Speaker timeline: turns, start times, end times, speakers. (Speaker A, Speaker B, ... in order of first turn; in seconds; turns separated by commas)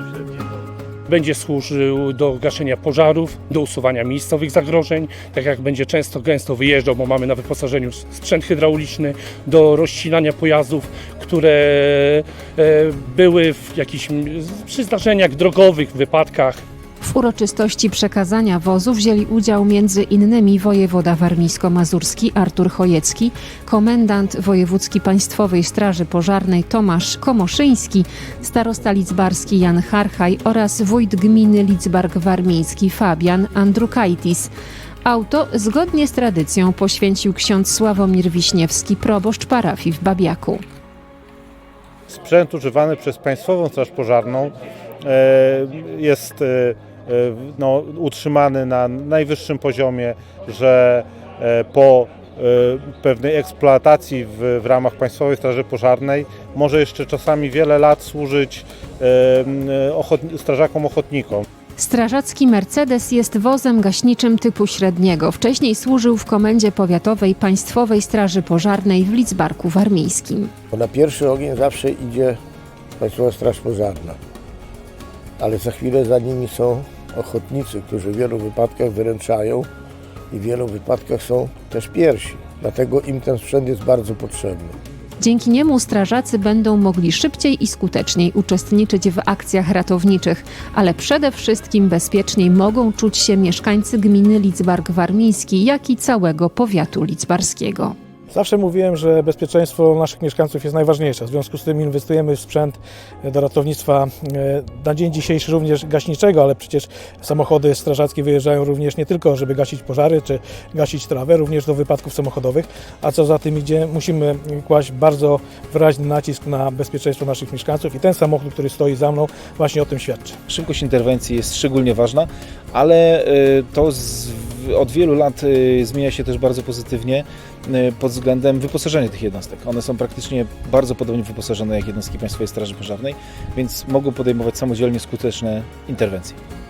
Speaker A: 1.1-16.6, Speaker B: 17.0-34.5, Speaker B: 35.0-40.6, Speaker C: 42.1-61.4, Speaker B: 61.8-70.5, Speaker D: 70.7-72.4, Speaker D: 73.0-74.2, Speaker D: 75.4-79.7, Speaker D: 80.3-84.7, Speaker B: 85.2-98.0, Speaker E: 98.3-120.4, Speaker F: 120.5-136.4